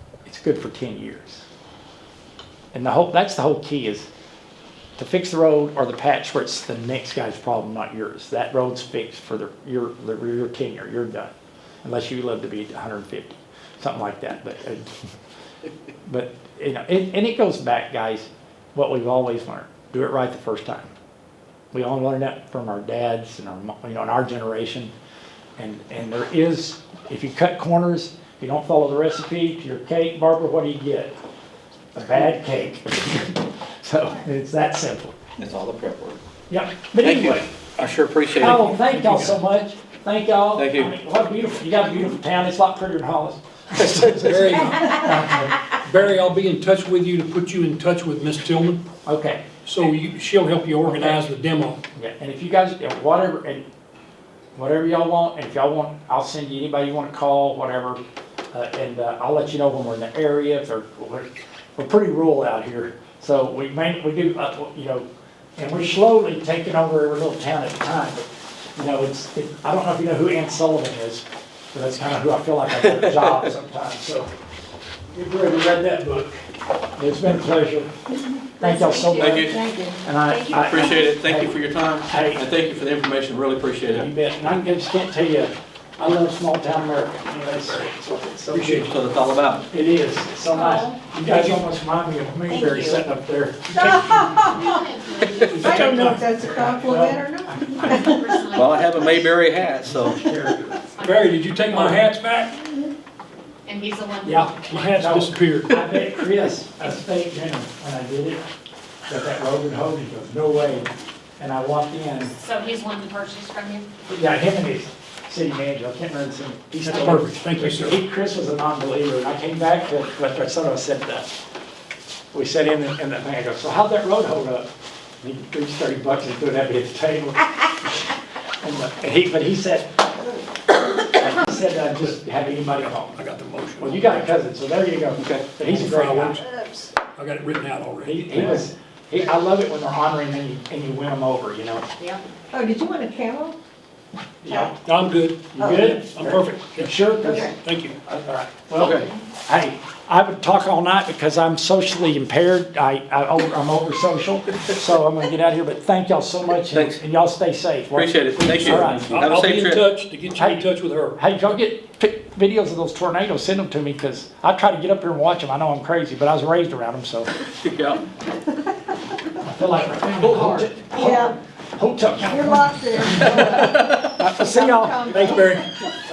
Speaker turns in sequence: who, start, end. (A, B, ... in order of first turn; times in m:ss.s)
0:00.2-0:01.4 A
0:02.7-0:04.1 A
0:05.0-0:14.9 A
0:16.0-0:20.9 A
0:21.7-0:24.9 A
0:25.6-0:31.1 A
0:31.9-0:35.2 A
0:35.4-0:36.2 B
0:36.5-0:37.5 A
0:37.0-0:38.7 B
0:38.4-0:45.6 A
0:38.5-0:39.4 C
0:40.6-0:40.9 B
0:43.8-0:44.4 B
0:44.2-0:48.8 C
0:49.0-0:49.4 A
0:49.6-0:51.8 C
0:50.8-0:51.2 A
0:52.0-0:53.6 A
0:54.5-0:58.0 A
0:58.5-1:08.2 A
1:08.8-1:14.3 A
1:15.1-1:16.4 A
1:17.0-1:17.9 A
1:18.6-1:21.5 A
1:18.6-1:20.8 D
1:19.2-1:19.6 B
1:20.5-1:24.1 B
1:22.1-1:22.4 A
1:23.9-1:28.9 A
1:28.5-1:28.9 C
1:28.6-1:29.6 B
1:29.7-1:34.4 A
1:31.1-1:31.6 C
1:32.5-1:33.0 D
1:33.7-1:34.8 D
1:34.4-1:35.6 E
1:35.4-1:36.2 C
1:35.5-1:38.3 D
1:35.6-1:38.1 A
1:38.0-1:39.2 E
1:38.5-1:40.2 B
1:39.8-1:40.8 A
1:40.7-1:41.4 E
1:41.0-1:42.6 C
1:41.7-1:42.0 A
1:43.6-1:44.7 E
1:44.2-1:48.4 A
1:44.4-1:45.9 C
1:49.1-1:52.3 A
1:52.4-1:53.8 E
1:54.1-2:01.3 A
1:56.8-1:58.0 C
2:02.3-2:04.7 A
2:05.2-2:10.0 A
2:10.9-2:13.2 A
2:13.1-2:14.3 C
2:13.8-2:16.4 A
2:15.2-2:15.4 B
2:15.6-2:16.5 C
2:17.1-2:18.7 C
2:18.0-2:21.8 A
2:22.5-2:23.6 D
2:24.4-2:24.8 A
2:24.5-2:24.7 D
2:24.8-2:28.0 C
2:25.5-2:27.5 A
2:25.6-2:25.9 D
2:27.2-2:27.5 D
2:28.2-2:39.3 A
2:28.7-2:29.1 B
2:36.7-2:37.0 B
2:37.9-2:39.8 B
2:38.6-2:41.2 C
2:40.4-2:47.3 A
2:47.4-2:48.0 B
2:49.4-2:55.6 A
2:50.2-2:50.7 B
2:50.9-2:51.3 D
2:52.1-2:55.6 D
2:53.2-2:54.2 B
2:55.2-2:55.6 C